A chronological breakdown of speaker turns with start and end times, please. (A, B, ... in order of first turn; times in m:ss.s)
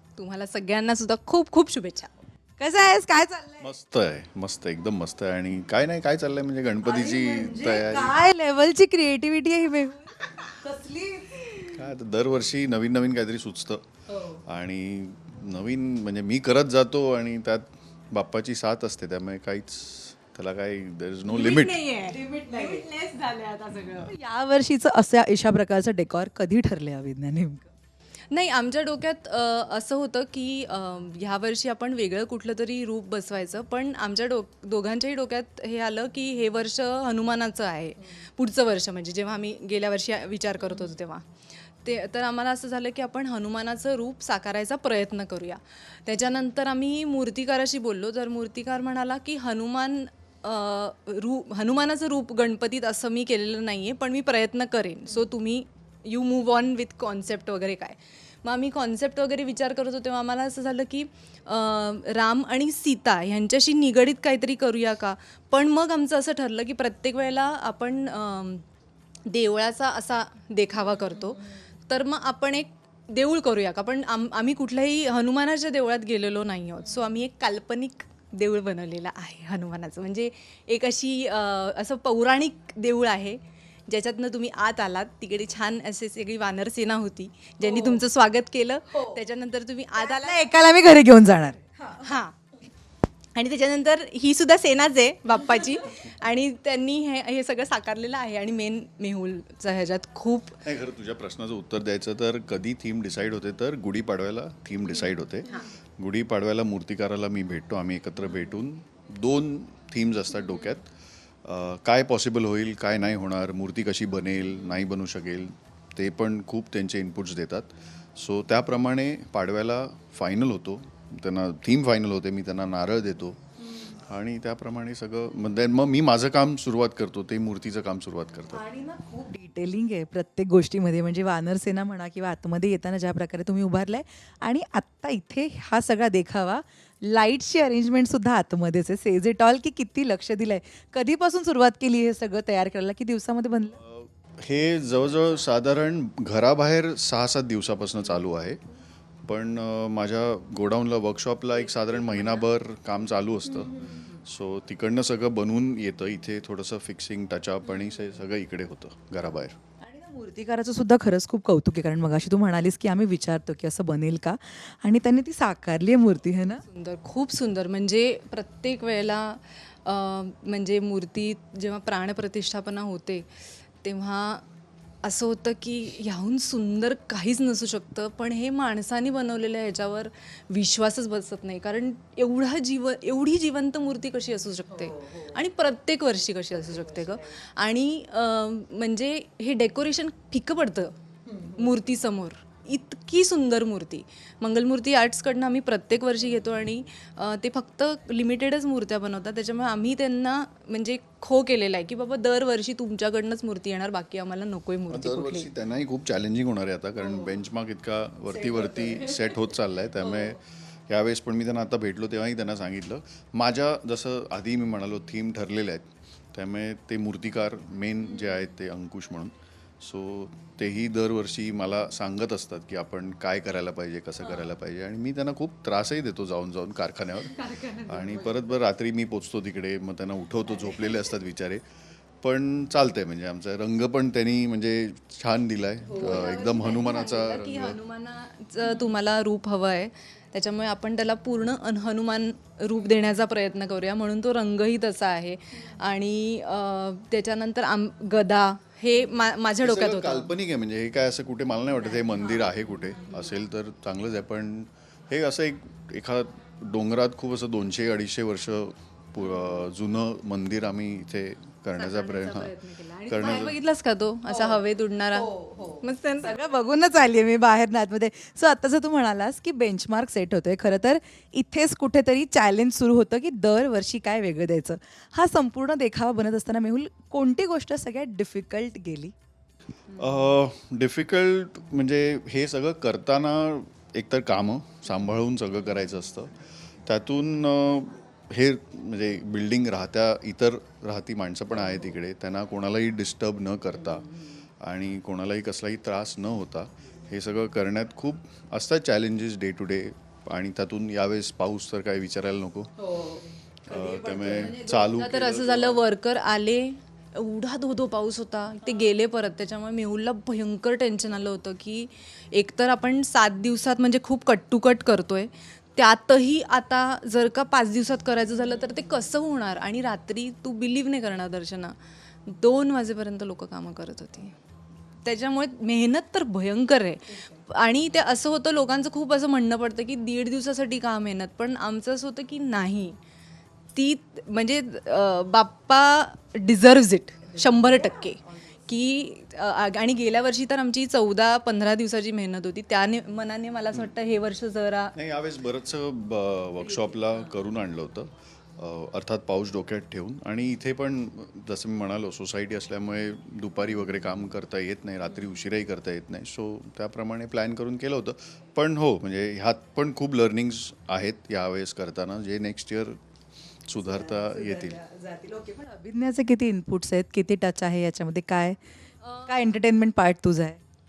0:00.2-0:02.1 A
0:02.6-0:03.7 B
0:03.6-0:08.2 C
0:06.8-0:11.8 B
0:11.7-0:13.8 C
0:14.5-0:21.8 C
0:21.3-0:24.2 A
0:22.1-0:22.9 B
0:24.0-0:27.7 B
0:28.3-0:41.2 A
0:41.8-1:08.6 A
1:09.3-1:30.5 A
1:27.6-1:28.0 B
1:28.9-1:29.2 B
1:30.0-1:32.2 B
1:32.0-1:32.4 A
1:33.4-1:40.6 A
1:40.6-1:50.8 C
1:51.4-2:03.4 C
2:03.9-2:08.6 C
2:08.5-2:23.8 B
2:23.8-2:28.6 C
2:29.2-2:39.6 C
2:39.8-2:46.6 B
2:46.6-2:54.4 A
2:55.0-3:25.5 A
3:04.8-3:05.3 B
3:24.9-3:51.6 C
3:28.5-3:29.0 B
3:47.5-3:48.1 B
3:52.2-3:57.8 C
3:55.9-4:10.3 A
4:09.6-4:22.6 C
4:21.8-4:26.4 A
4:23.1-4:23.6 C
4:24.3-4:24.6 B
4:25.1-4:39.1 B
4:40.0-4:54.1 C
4:54.6-5:02.7 C
5:02.8-5:04.8 B
5:03.7-5:05.8 C
5:04.6-5:24.4 A
5:25.0-5:33.0 A
5:33.8-5:44.9 A
5:37.3-5:38.2 B
5:45.0-6:03.0 C
6:03.7-6:04.8 C
6:03.8-6:08.6 B
6:09.0-6:09.4 A
6:09.2-6:10.6 B